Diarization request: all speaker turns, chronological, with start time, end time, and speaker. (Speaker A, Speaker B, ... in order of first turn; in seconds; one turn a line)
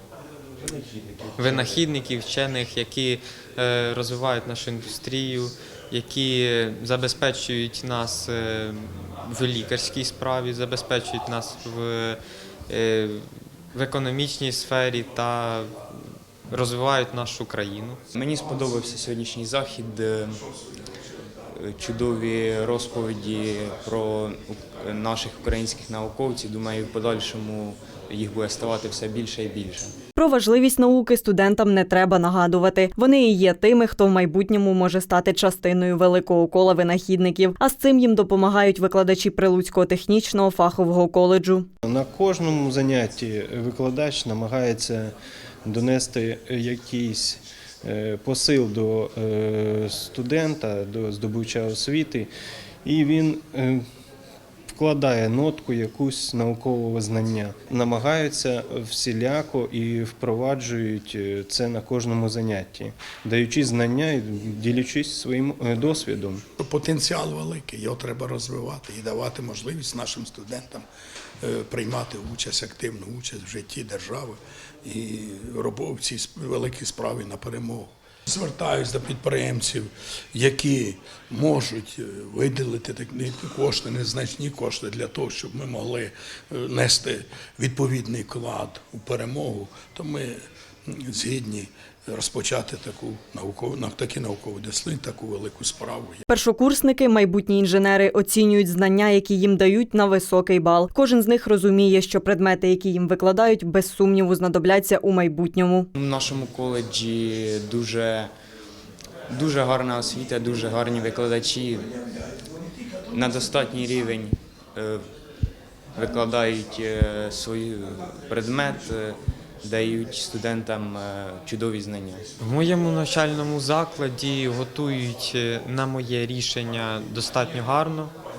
Speaker A: 1.4-15.7
Speaker A: 16.5-18.0
Speaker B: 18.1-20.4
Speaker B: 21.5-29.9
Speaker C: 30.1-41.7
Speaker D: 41.8-45.1
Speaker D: 45.6-52.3
Speaker D: 52.8-53.8
Speaker D: 54.7-66.4
Speaker E: 66.6-70.8
Speaker E: 71.4-96.2
Speaker C: 96.3-105.9
Speaker B: 105.9-108.3
Speaker B: 109.3-111.9
Speaker B: 113.1-115.0
Speaker B: 115.9-122.2
Speaker A: 122.4-128.1